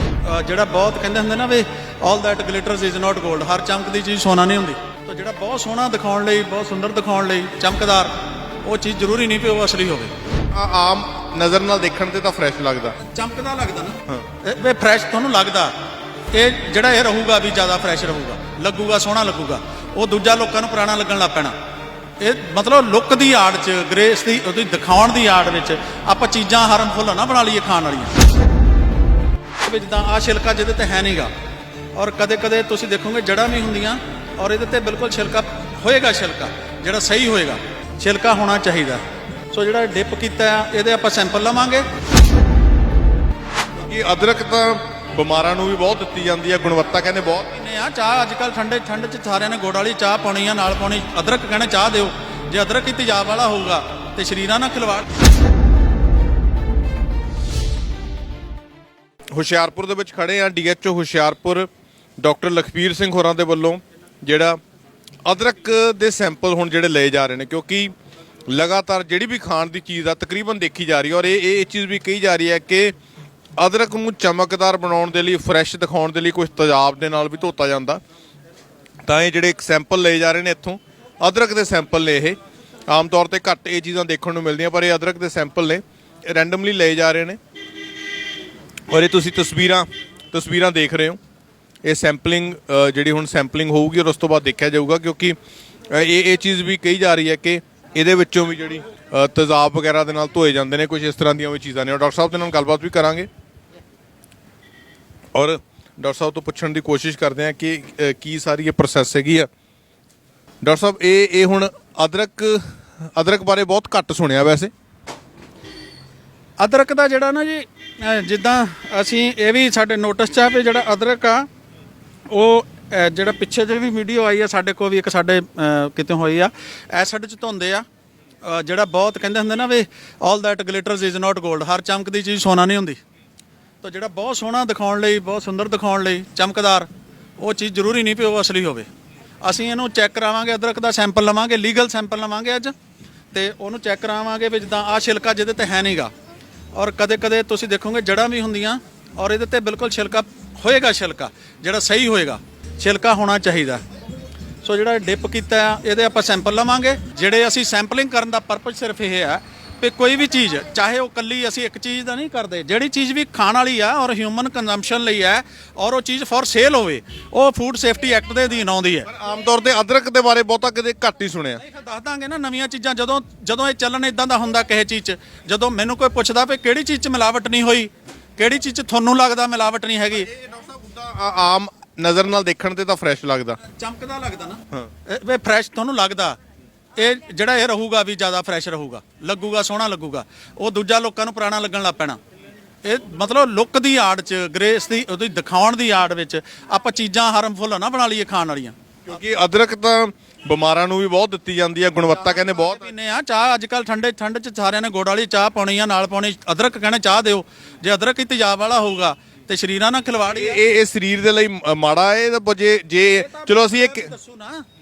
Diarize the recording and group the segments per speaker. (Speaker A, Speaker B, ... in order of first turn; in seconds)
Speaker A: 0.2-10.1, 13.0-15.7, 16.3-21.5, 22.2-28.1, 29.6-31.3, 31.9-41.9, 47.5-55.1, 116.6-121.5, 122.3-127.8, 128.4-133.0, 133.8-138.9, 139.4-142.7, 143.3-146.1, 146.7-153.8, 154.6-169.1, 171.6-180.3, 183.6-186.4, 186.9-192.2, 192.8-198.7, 202.1-210.6, 213.1-214.6
Speaker B: 10.5-13.0, 43.8-47.5, 59.3-61.7, 62.2-64.6, 65.2-67.9, 68.5-72.9, 73.6-78.0, 79.0-87.4, 88.9-91.2, 91.8-95.3, 95.9-103.3, 105.3-109.5, 110.6-114.7, 169.1-171.6, 180.3-183.6, 199.1-202.9, 210.3-214.1